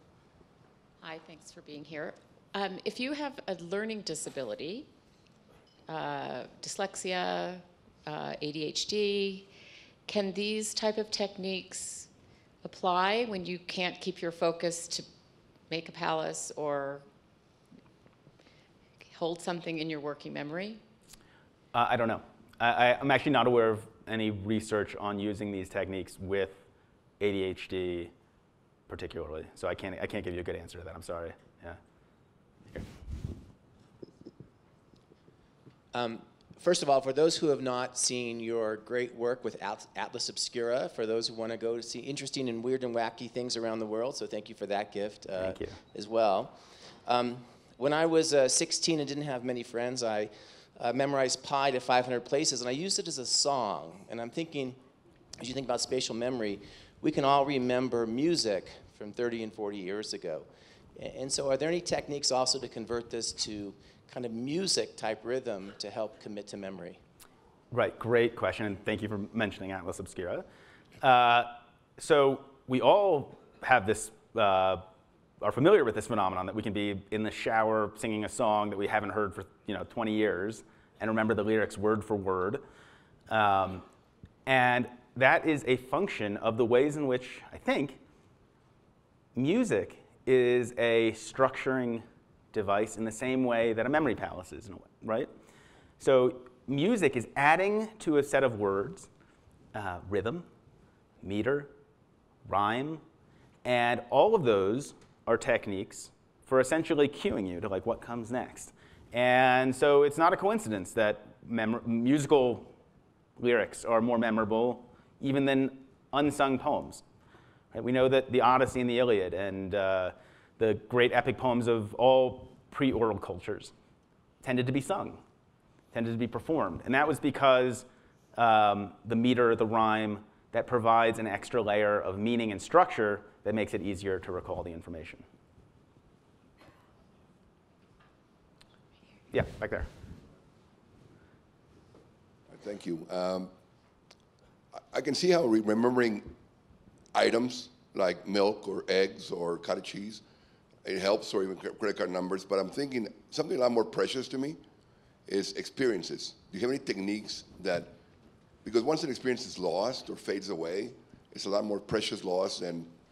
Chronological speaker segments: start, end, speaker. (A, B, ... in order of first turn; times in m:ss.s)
0:01.0-0:04.9 A
0:05.9-0:09.5 A
0:10.1-0:12.1 A
0:12.6-0:15.0 A
0:15.7-0:17.0 A
0:19.1-0:20.8 A
0:21.7-0:26.6 B
0:27.2-0:28.1 B
0:28.9-0:31.8 B
0:35.9-0:54.8 C
0:45.4-0:45.8 B
0:55.4-1:07.0 C
1:07.7-1:10.4 B
1:11.0-1:14.8 B
1:15.4-1:22.6 B
1:23.3-1:23.8 B
1:24.4-1:28.0 B
1:29.4-1:35.3 B
1:36.0-1:39.1 B
1:39.7-1:40.5 B
1:41.2-1:41.7 B
1:42.4-1:43.0 B
1:43.6-1:52.7 B
1:53.4-1:57.0 B
1:57.7-2:03.7 B
2:04.4-2:05.2 B
2:05.9-2:15.2 B
2:19.3-2:19.9 B
2:22.5-2:23.5 D
2:24.9-2:26.3 D
2:27.1-2:30.2 D
2:30.8-2:34.6 D
2:35.3-2:38.0 D
2:38.6-2:42.9 D